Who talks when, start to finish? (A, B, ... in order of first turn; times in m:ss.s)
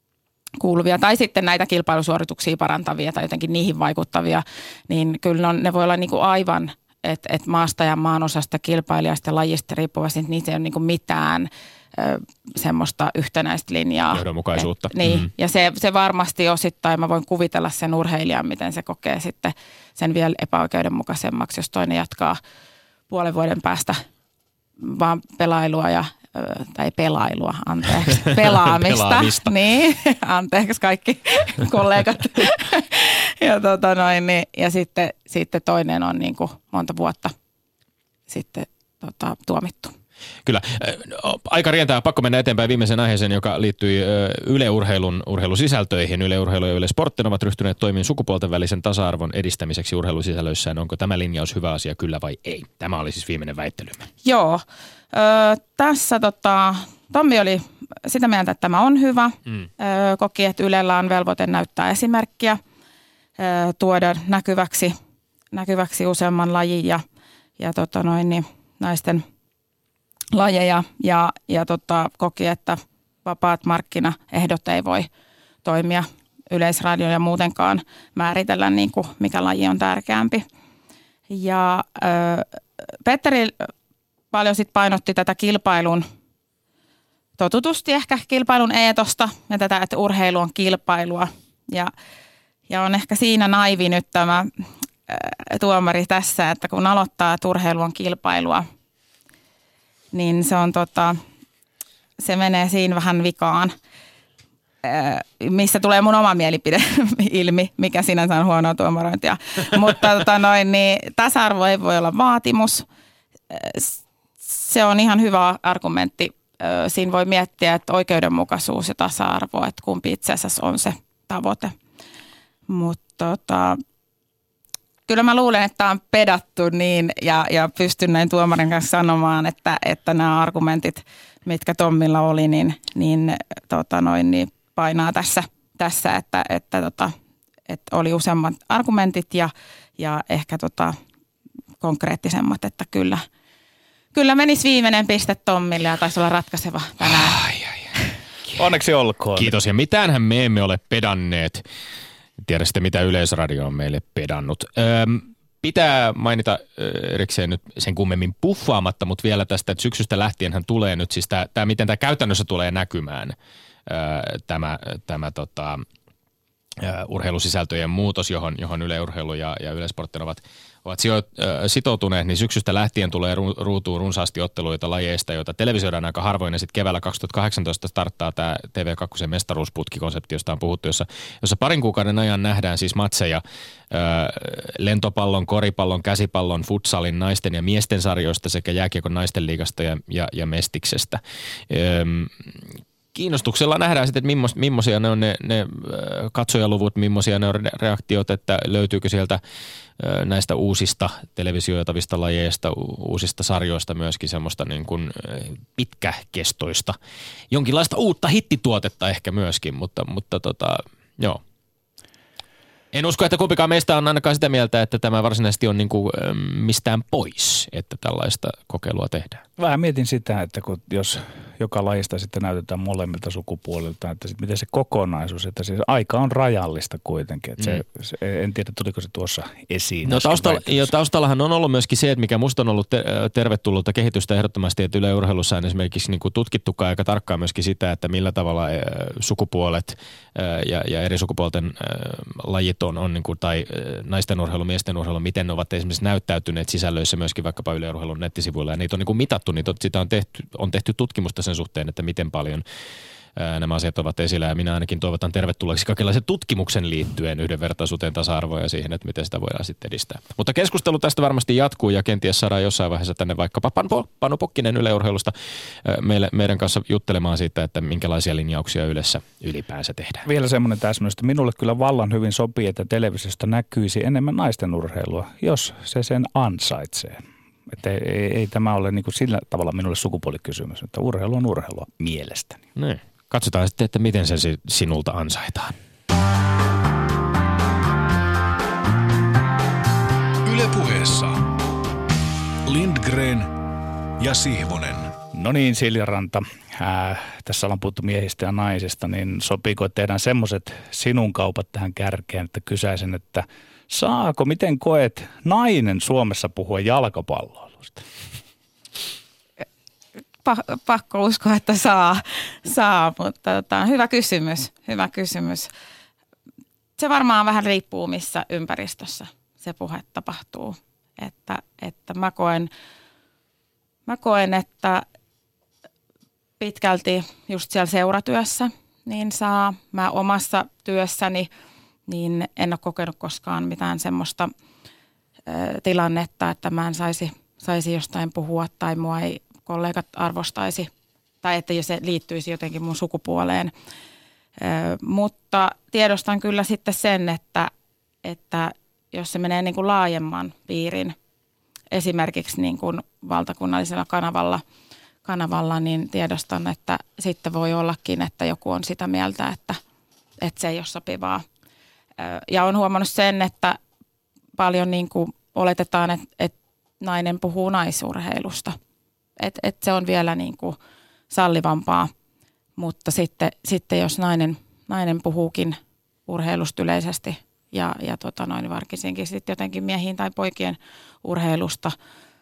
0:00.6-0:22.4 A
0:14.1-0:15.3 B
0:23.1-0:24.0 A
0:24.8-0:37.3 A
0:28.8-0:29.4 B
0:38.3-0:39.9 A
0:40.4-0:54.1 B
0:54.2-1:02.6 A
1:03.4-1:04.9 A
1:05.5-1:07.0 A
1:07.6-1:09.2 A
1:10.3-1:15.1 A
1:15.6-1:20.4 A
1:21.3-1:23.7 A
1:24.3-1:26.0 A
1:27.4-1:31.9 A
1:32.7-1:34.5 A
1:35.1-1:38.6 A
1:40.1-1:41.2 A
1:42.2-1:43.7 A
1:44.8-1:52.8 A
1:53.5-2:01.7 A
2:02.7-2:03.8 A
2:05.1-2:17.1 A
2:17.7-2:21.0 A
2:21.8-2:23.2 A
2:24.1-2:27.4 A
2:27.2-2:27.9 B
2:28.6-2:29.5 C
2:29.4-2:31.6 B
2:32.4-2:43.3 B
2:43.9-2:45.8 B
2:46.8-3:12.5 B
3:13.1-3:19.4 B
3:20.0-3:27.0 B
3:27.5-3:31.4 B
3:32.9-3:39.4 B
3:39.6-3:50.9 C
3:50.0-4:12.6 B
4:13.4-4:25.3 B
4:25.8-4:30.2 B
4:30.2-4:42.6 C
4:42.8-4:45.7 B
4:50.4-4:51.6 D
4:52.7-4:53.5 D
4:54.2-4:55.2 D
4:55.3-5:08.0 C
5:10.4-5:15.7 A
5:17.0-5:22.7 A
5:24.1-5:25.0 A
5:26.6-5:31.5 A
5:32.1-5:34.5 A
5:35.5-5:40.9 A
5:41.4-5:43.7 A
5:44.6-5:47.7 A
5:48.2-5:51.2 A
5:51.9-5:54.6 A
5:55.2-5:59.8 A
6:00.4-6:01.4 A
6:02.2-6:03.8 A
6:04.6-6:08.8 A
6:09.4-6:10.8 A
6:11.3-6:12.1 A
6:12.8-6:21.9 A